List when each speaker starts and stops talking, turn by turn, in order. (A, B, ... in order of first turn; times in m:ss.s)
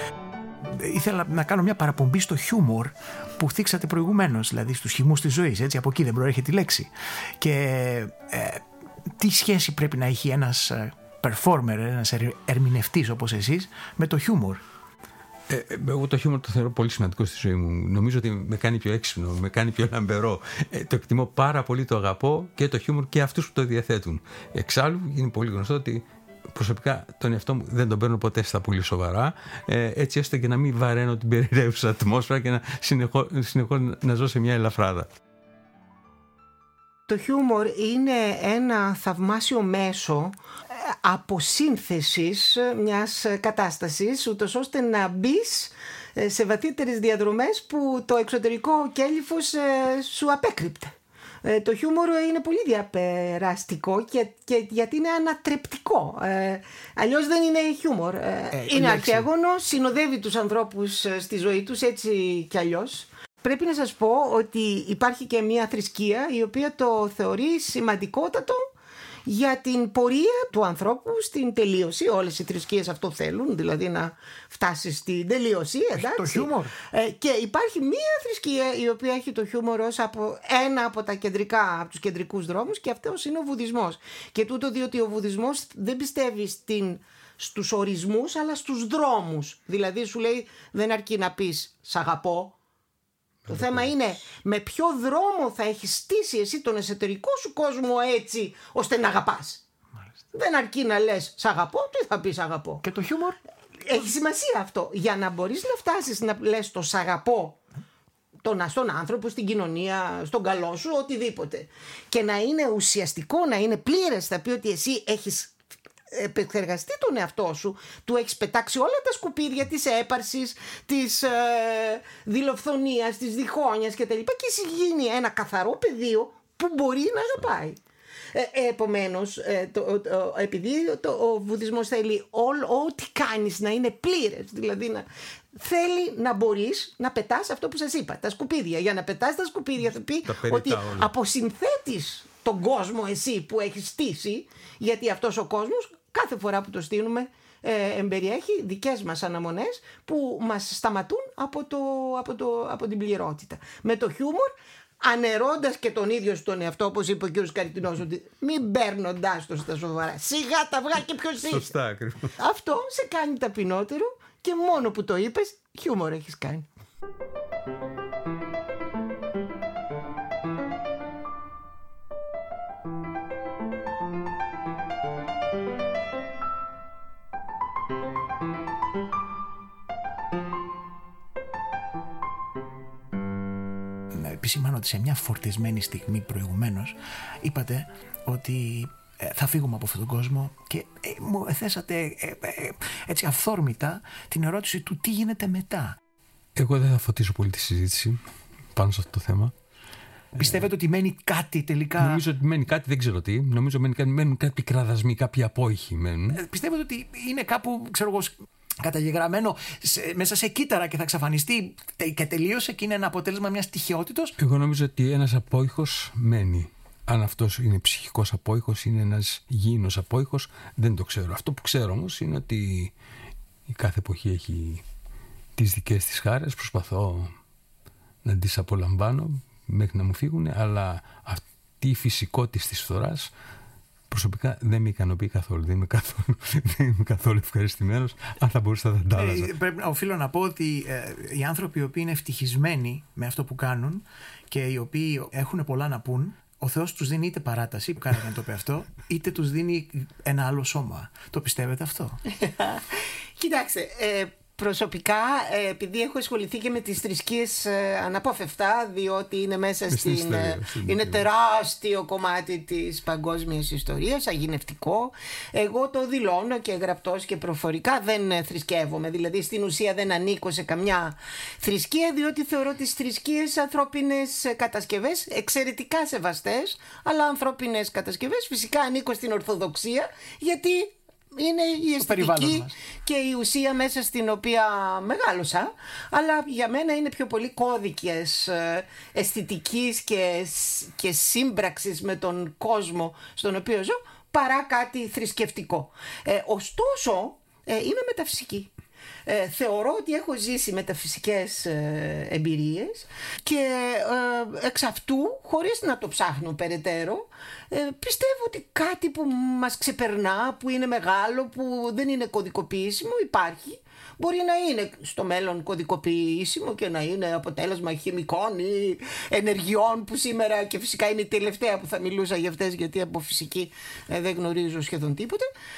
0:00.6-0:14.6 A
0:15.5-0:35.1 B
0:37.1-1:08.6 C
0:58.5-0:59.3 A
1:09.2-1:32.5 C
1:16.0-1:16.7 A
1:33.4-1:33.8 B
1:33.5-1:39.6 C
1:40.3-1:42.8 C
1:42.8-1:43.4 A
1:43.8-1:47.6 C
1:48.4-1:55.5 C
1:56.1-2:07.8 C
2:08.3-2:34.5 C
2:20.2-2:21.1 B
2:35.0-2:41.8 C
2:41.5-2:42.3 B
2:42.4-2:46.6 C
3:04.1-3:16.0 A
3:16.6-3:18.2 B
3:18.7-3:19.5 B
3:20.3-3:22.2 A
3:20.4-3:20.7 B
3:22.0-3:26.4 B
3:26.3-3:34.4 A
3:34.4-3:42.9 B
3:43.7-3:44.8 B
3:45.6-3:47.3 B
3:48.2-3:53.3 B
3:54.1-3:59.5 B
3:59.1-4:12.2 A
4:12.3-4:58.7 C
4:19.9-4:21.3 B
4:42.0-4:42.8 A
4:59.3-5:25.4 C